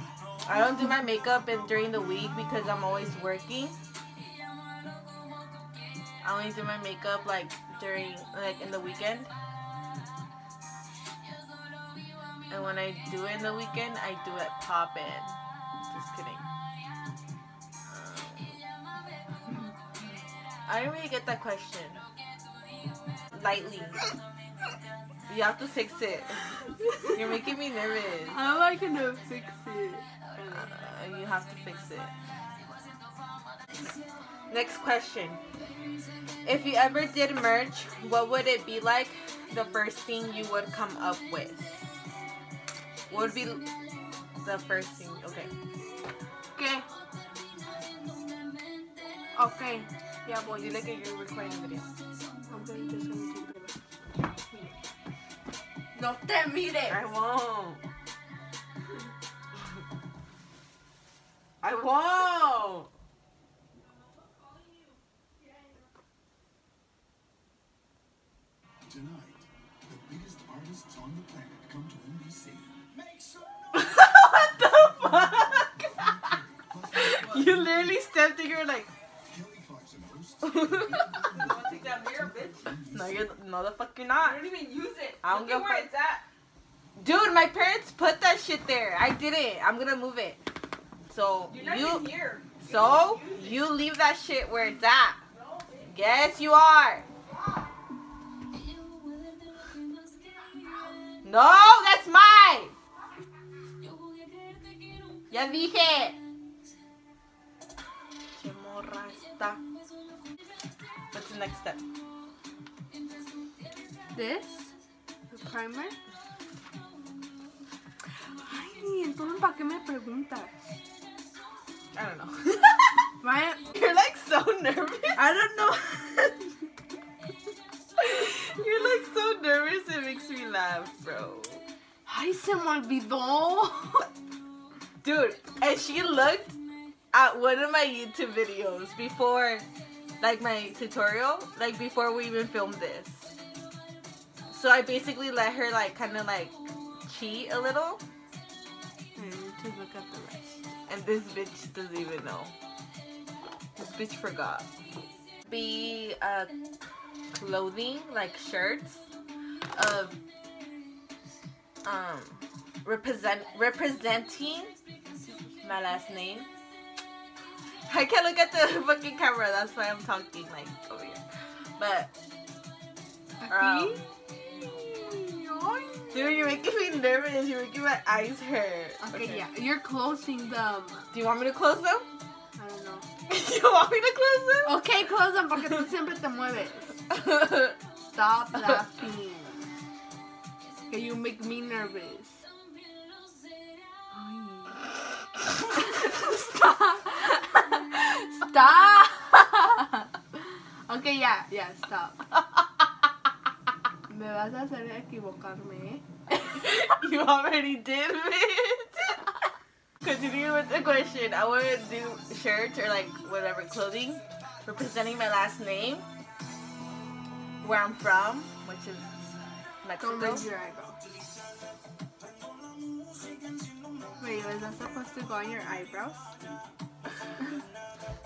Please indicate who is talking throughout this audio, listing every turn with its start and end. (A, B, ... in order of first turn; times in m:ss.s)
0:00.4-0:03.8 A
0:06.2-0:09.3 A
0:12.5-0:15.3 A
0:15.9-0:16.4 A
0:17.9-0:18.6 A
0:20.7-0:22.0 A
0:23.3-0:24.0 A
0:25.3-0:28.4 A
0:28.3-0:30.7 B
0:30.5-0:32.1 A
0:34.5-0:35.4 A
0:36.4-0:41.9 A
0:43.1-0:43.6 A
0:44.4-0:45.5 A
0:46.6-0:46.9 B
0:49.4-0:50.7 B
0:50.5-0:51.9 A
0:52.5-0:53.8 B
0:55.9-0:57.0 B
0:56.9-0:57.8 A
1:01.6-1:02.9 A
1:13.7-1:16.1 A
1:16.9-1:18.9 A
1:20.4-1:21.1 A
1:21.2-1:22.7 C
1:22.9-1:24.4 A
1:24.2-1:26.2 C
1:25.2-1:25.9 A
1:27.0-1:30.4 A
1:31.1-1:32.0 A
1:31.5-1:33.6 C
1:32.6-1:35.2 A
1:35.9-1:37.1 A
1:41.2-1:42.8 A
1:45.3-1:46.2 A
1:48.4-1:49.6 A
1:51.1-1:51.8 A
1:54.1-1:54.7 B
1:55.3-1:56.0 B
1:58.4-2:00.6 B
2:01.9-2:03.1 A
2:03.2-2:03.6 B
2:03.7-2:05.2 A
2:05.2-2:06.5 B
2:08.0-2:11.6 A
2:12.1-2:14.1 B
2:15.0-2:16.6 A
2:17.1-2:19.7 A
2:20.2-2:23.3 A
2:24.5-2:26.6 A
2:27.1-2:28.0 A
2:29.2-2:30.6 B
2:30.9-2:32.5 A
2:33.8-2:34.7 A
2:35.5-2:36.5 A
2:37.3-2:39.0 A
2:39.7-2:40.2 A
2:41.8-2:44.7 A
2:45.6-2:46.5 A
2:47.9-2:51.2 A
2:51.8-2:52.1 A
2:53.4-2:56.5 B
2:53.5-2:54.0 A
2:56.1-2:59.4 A
2:59.0-3:01.1 B
3:01.1-3:02.1 A
3:02.6-3:03.1 B
3:03.3-3:04.8 A
3:04.6-3:07.0 B
3:07.2-3:07.7 A
3:08.1-3:09.7 B
3:10.9-3:12.4 B
3:14.1-3:14.8 B
3:15.7-3:22.3 B
3:24.1-3:26.1 B
3:26.5-3:29.2 A
3:30.0-3:36.0 A
3:37.6-3:39.1 A
3:39.8-3:40.5 A
3:40.0-3:41.0 B
3:44.2-3:46.3 B